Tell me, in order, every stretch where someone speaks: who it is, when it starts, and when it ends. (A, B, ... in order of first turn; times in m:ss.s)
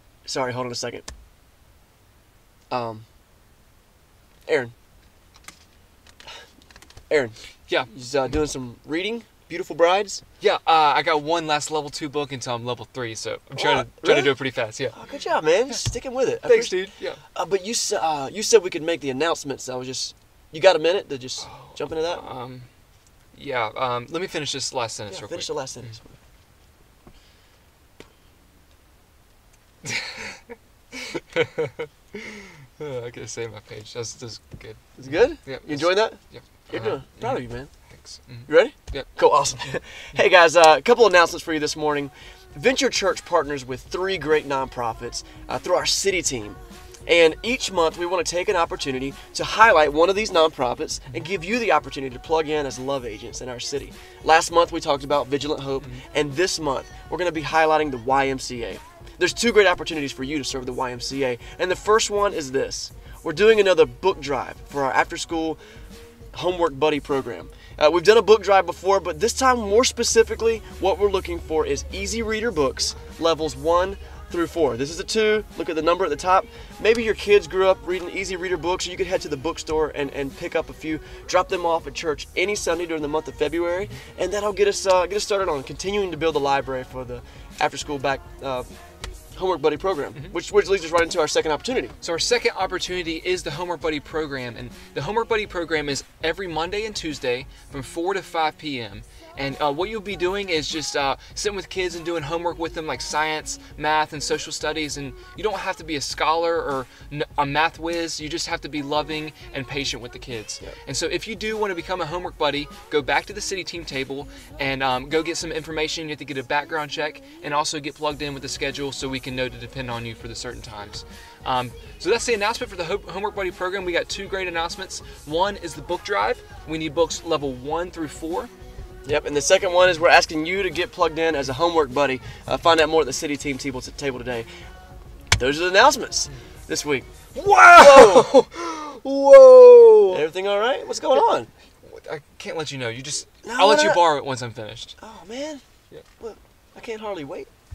0:00.3-0:01.0 A
0:02.7-0:03.0 A
0:04.5-0:04.7 A
0:07.1-0:07.4 A
0:07.9-0:10.2 A
0:10.4-0:15.0 B
0:13.6-0:14.3 A
0:14.9-0:16.8 A
0:16.4-0:17.2 B
0:17.4-0:22.2 A
0:21.4-0:22.7 B
0:23.4-0:25.5 B
0:25.1-0:26.2 A
0:29.8-0:39.1 B
0:35.0-0:37.7 A
0:38.5-1:05.6 A
1:06.3-1:28.7 A
1:29.4-1:32.0 A
1:32.0-2:08.5 B
2:09.0-2:14.5 A
2:15.4-2:17.1 A
2:17.3-2:20.2 B
2:17.8-2:18.3 A
2:20.1-2:21.5 A
2:21.8-2:25.0 B
2:23.4-2:24.1 A
2:25.0-2:25.6 A
2:26.2-2:27.5 A